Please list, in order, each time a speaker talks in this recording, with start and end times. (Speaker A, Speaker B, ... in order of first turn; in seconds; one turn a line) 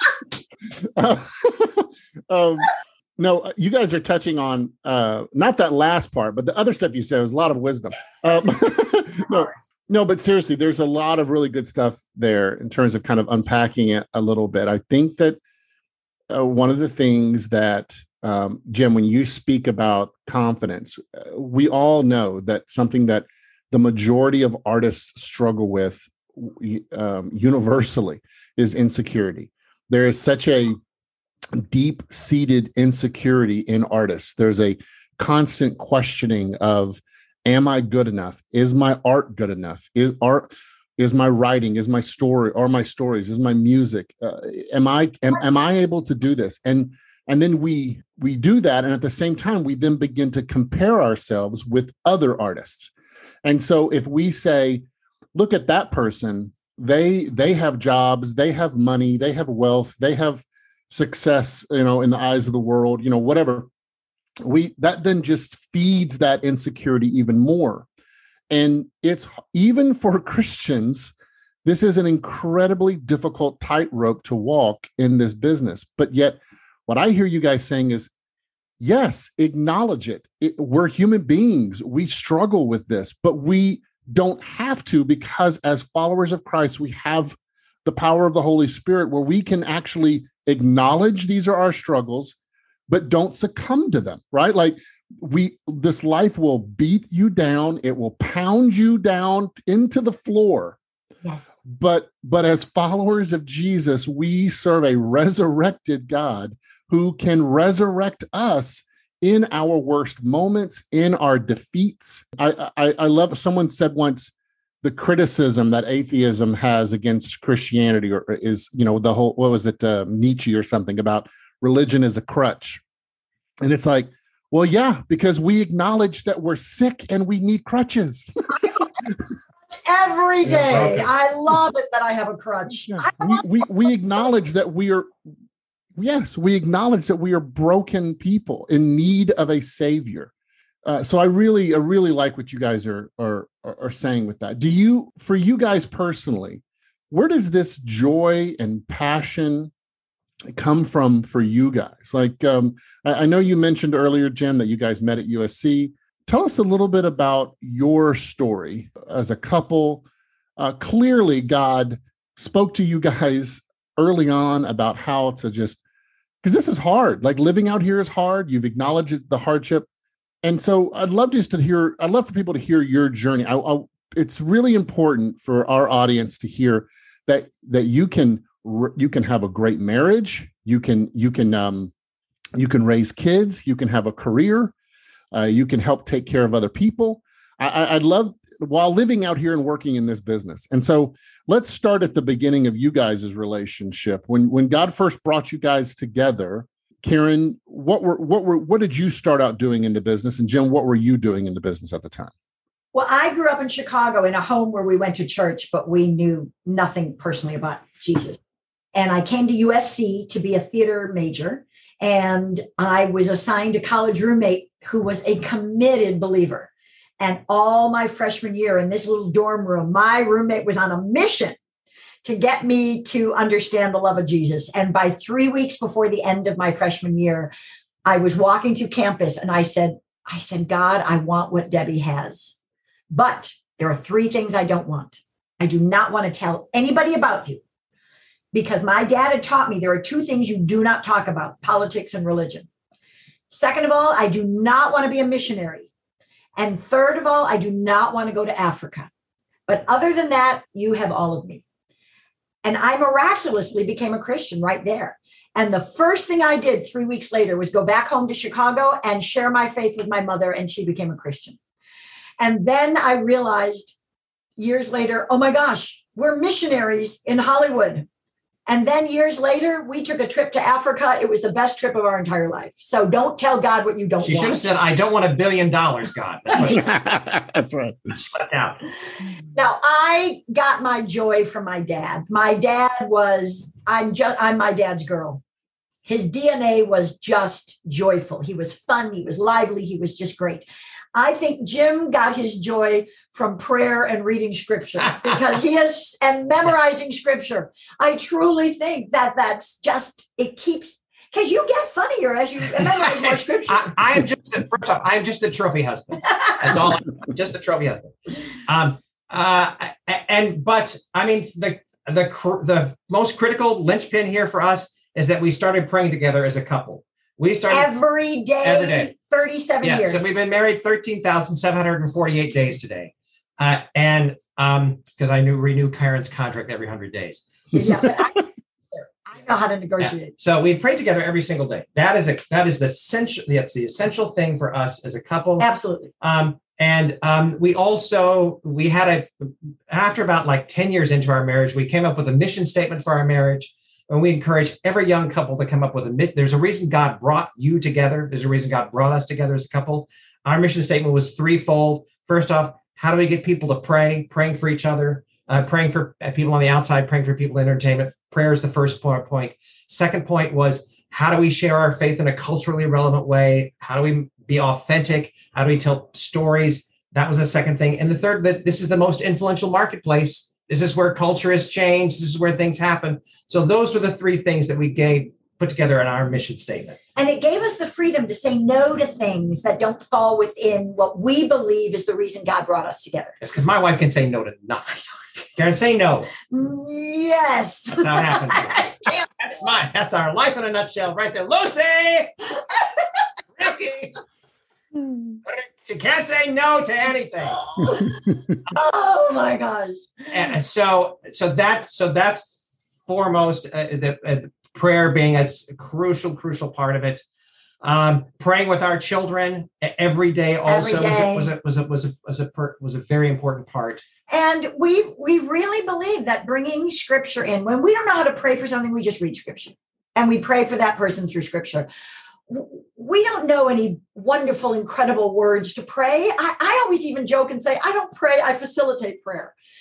Speaker A: 0.8-15.4
Speaker A: 16.3-30.8
Speaker A: 31.5-52.9
Speaker A: 53.4-63.7
Speaker A: 64.4-67.9
Speaker A: 68.5-71.1
Speaker A: 71.7-78.1
Speaker A: 78.8-92.3
Speaker A: 92.9-100.8
Speaker A: 101.7-114.3
Speaker A: 114.8-122.8
Speaker A: 123.6-129.2
Speaker B: 129.8-133.5
Speaker C: 130.5-131.1
Speaker A: 132.9-135.1
Speaker A: 136.0-140.3
Speaker A: 140.8-149.7
Speaker A: 150.5-160.1
Speaker A: 160.6-165.8
Speaker A: 166.4-169.9
Speaker A: 170.4-181.9
Speaker A: 182.6-184.7
Speaker A: 185.3-202.3
Speaker B: 202.9-208.4
Speaker B: 208.9-221.6
Speaker B: 222.2-227.5
Speaker B: 228.1-232.6
Speaker B: 233.1-237.6
Speaker B: 238.5-242.7
Speaker B: 243.5-245.9
Speaker B: 246.6-249.1
Speaker B: 249.7-251.6
Speaker B: 252.6-261.6
Speaker B: 262.4-264.0
Speaker B: 264.6-268.1
Speaker B: 268.7-274.7
Speaker C: 274.2-276.9
Speaker B: 276.5-276.9
Speaker A: 276.6-278.1
Speaker C: 278.1-278.8
Speaker B: 279.5-285.4
Speaker B: 286.1-303.9
Speaker C: 303.0-317.9
Speaker B: 317.7-320.4
Speaker C: 318.6-319.1
Speaker C: 319.8-328.1
Speaker B: 327.7-330.3
Speaker C: 330.0-335.7
Speaker B: 335.6-336.1
Speaker C: 336.2-377.0
Speaker B: 377.2-383.4
Speaker C: 383.4-386.3
Speaker B: 386.5-389.3
Speaker C: 387.9-392.3
Speaker C: 393.6-394.1
Speaker C: 395.5-397.7
Speaker B: 397.6-400.3
Speaker C: 400.3-407.2
Speaker C: 407.8-414.0
Speaker B: 410.7-411.5
Speaker B: 414.3-421.9
Speaker B: 422.5-429.5